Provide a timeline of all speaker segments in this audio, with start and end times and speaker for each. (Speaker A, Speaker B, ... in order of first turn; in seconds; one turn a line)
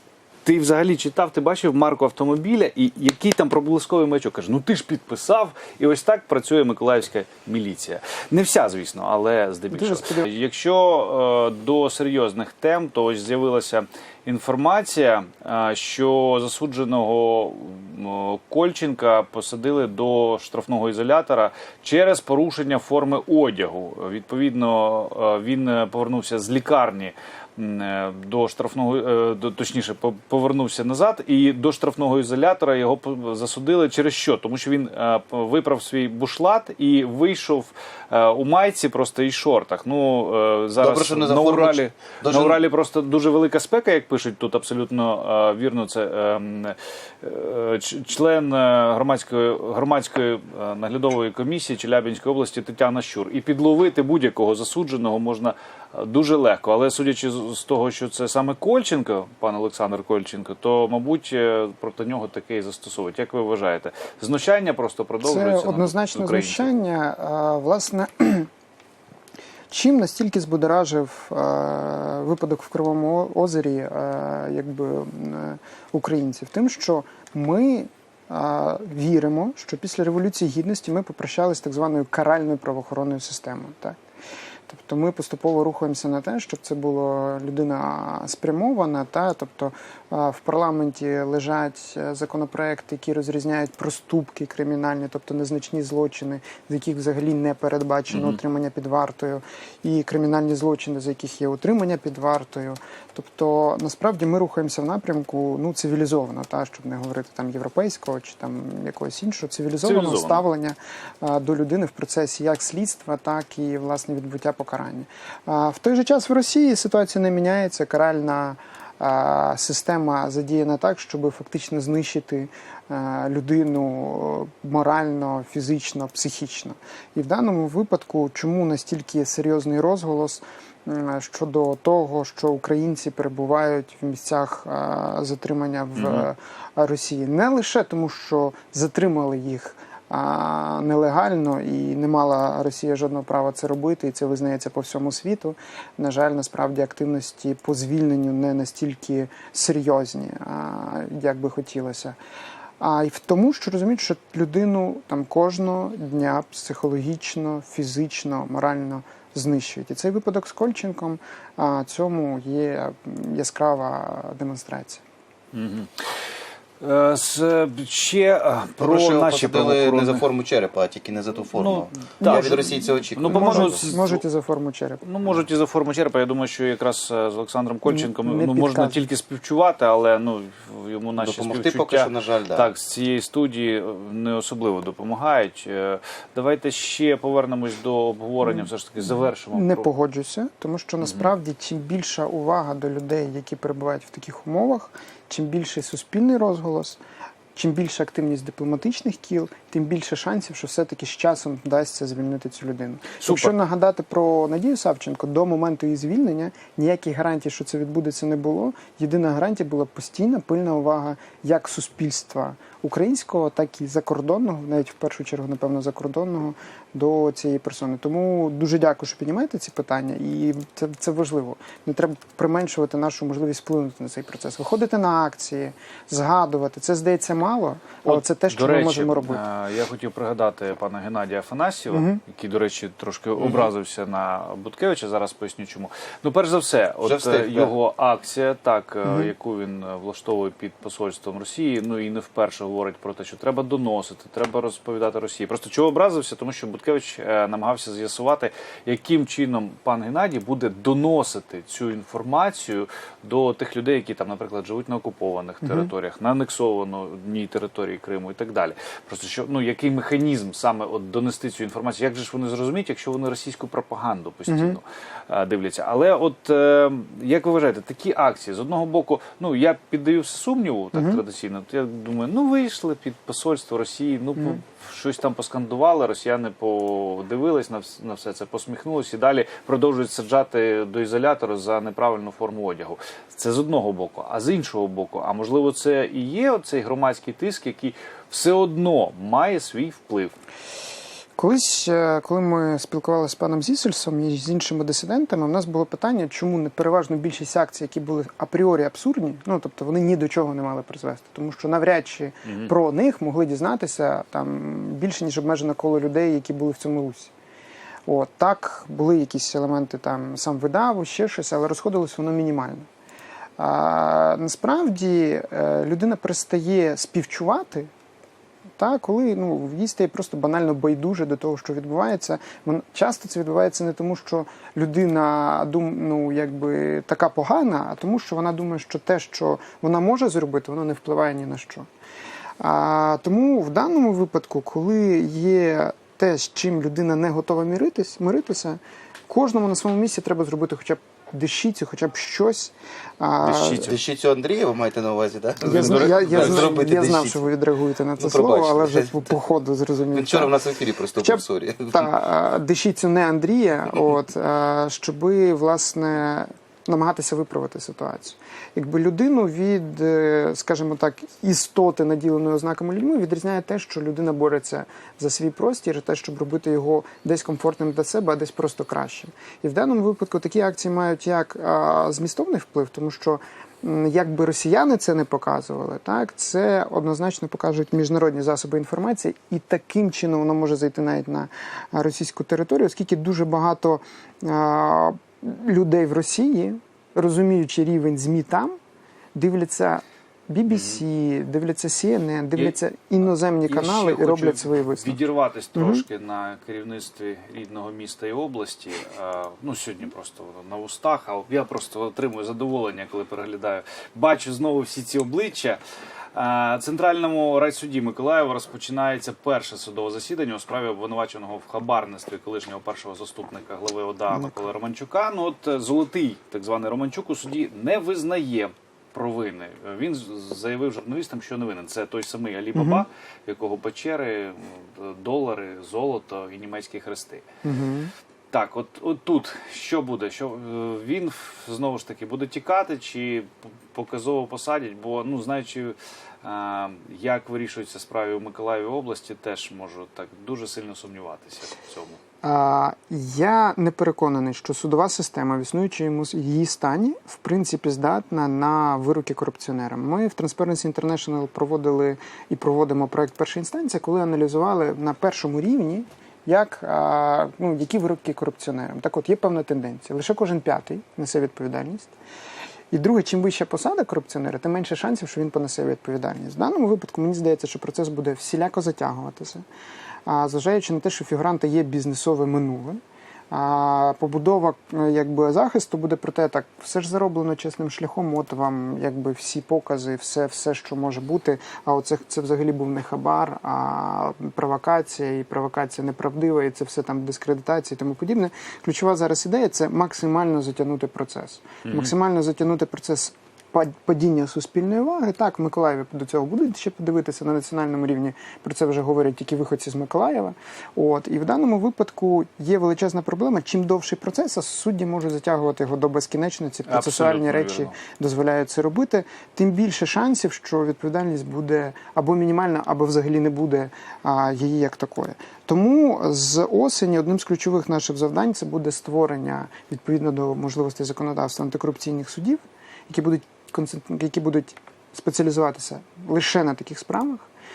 Speaker A: 0.4-66.7
Speaker B: 9.7-10.3
Speaker C: 40.8-42.6
Speaker B: 65.2-68.5
Speaker B: 69.7-84.0
Speaker B: 84.7-152.2
Speaker A: 98.1-98.4
Speaker A: 109.8-110.4
Speaker A: 135.9-136.3
Speaker B: 152.8-165.0
Speaker A: 165.5-166.1
Speaker A: 166.8-170.2
Speaker C: 168.8-173.9
Speaker A: 171.6-174.2
Speaker B: 172.2-175.0
Speaker A: 175.0-189.9
Speaker B: 177.9-179.0
Speaker C: 181.2-182.7
Speaker B: 189.5-197.0
Speaker B: 197.5-229.4
Speaker A: 203.2-203.5
Speaker A: 228.0-290.3
Speaker B: 231.9-232.2
Speaker C: 237.0-237.7
Speaker B: 255.6-255.9
Speaker B: 264.5-264.8
Speaker B: 270.9-271.2
Speaker B: 291.4-307.3
Speaker A: 302.4-302.7
Speaker B: 308.1-312.9
Speaker B: 313.6-317.9
Speaker B: 318.8-331.9
Speaker B: 332.6-343.9
Speaker A: 343.4-344.0
Speaker C: 343.7-347.4
Speaker B: 345.6-350.5
Speaker A: 345.9-346.5
Speaker C: 348.2-349.2
Speaker C: 350.1-352.1
Speaker B: 351.2-388.8
Speaker B: 389.3-395.2
Speaker A: 390.7-391.0
Speaker A: 393.7-405.8
Speaker B: 395.7-396.0
Speaker A: 406.3-427.4
Speaker B: 422.7-423.0
Speaker B: 427.6-428.1
Speaker A: 428.5-442.2
Speaker B: 442.4-462.1
Speaker B: 462.9-469.6
Speaker B: 470.2-473.0
Speaker B: 473.5-527.5
Speaker A: 491.8-492.1
Speaker A: 506.9-507.9